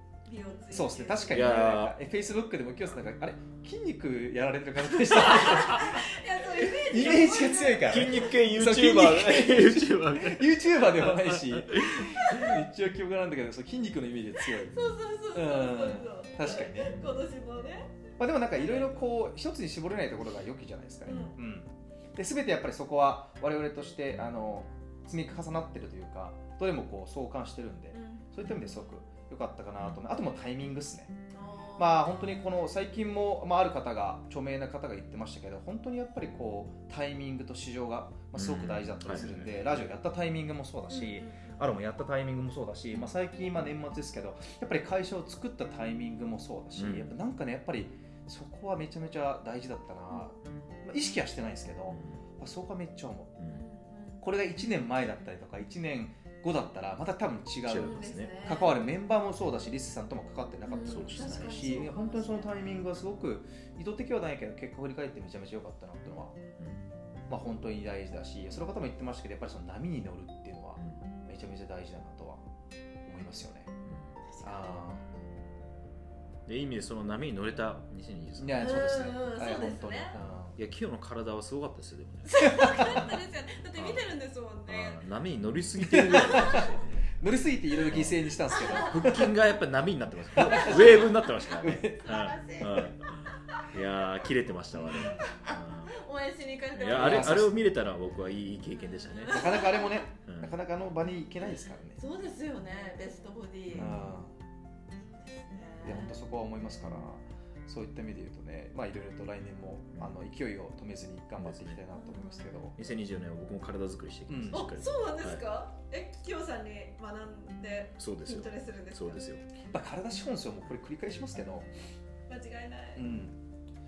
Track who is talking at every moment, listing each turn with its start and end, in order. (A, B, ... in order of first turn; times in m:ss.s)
0:00.2-0:01.6 A
0:00.7-0:06.1 B
0:01.3-0:02.0 C
0:05.0-0:08.3 A
0:06.8-0:14.8 B
0:06.9-0:12.6 C
0:14.5-0:19.1 A
0:15.3-0:17.0 B
0:16.8-0:17.2 C
0:18.2-0:31.1 B
0:21.0-0:21.4 A
0:21.1-0:21.3 C
0:27.9-0:28.3 A
0:29.8-0:30.0 C
0:31.3-0:32.4 A
0:31.8-0:53.3 B
0:38.3-0:39.5 C
0:40.9-0:41.7 A
0:46.8-0:47.1 C
0:51.9-0:52.2 C
0:53.4-0:53.6 C
0:53.5-0:54.2 A
0:54.2-1:06.4 B
0:57.6-0:58.3 C
0:57.8-0:58.8 A
1:00.6-1:02.6 A
1:00.8-1:01.5 C
1:06.6-1:06.8 C
1:07.3-1:12.4 B
1:10.8-1:11.0 C
1:13.0-1:13.7 B
1:13.8-1:14.2 C
1:14.3-1:14.8 A
1:14.4-1:15.0 B
1:16.4-1:18.7 C
1:18.4-1:20.6 B
1:18.6-1:20.2 A
1:20.6-1:23.2 C
1:22.2-1:25.0 A
1:22.4-1:22.8 B
1:23.7-1:24.1 C
1:24.6-1:27.1 C
1:25.8-1:29.2 B
1:27.9-1:35.9 C
1:28.5-1:29.3 A
1:30.3-1:32.1 B
1:30.4-1:33.6 A
1:34.9-1:35.2 B
1:34.9-1:37.4 A
1:36.7-1:39.7 C
1:36.9-1:37.6 B
1:38.7-1:40.0 A
1:39.2-1:42.0 B
1:40.3-1:40.6 C
1:42.0-1:44.0 A
1:43.7-1:44.1 C
1:43.7-1:44.4 B
1:45.2-1:46.2 A
1:45.8-1:52.8 B
1:51.4-1:51.8 C
1:51.9-1:52.6 A
1:52.8-1:55.4 C
1:54.3-1:54.6 B
1:54.5-1:59.2 A
1:58.0-1:59.4 C
1:59.6-2:01.7 B
2:02.3-2:03.0 A
2:03.0-2:03.4 B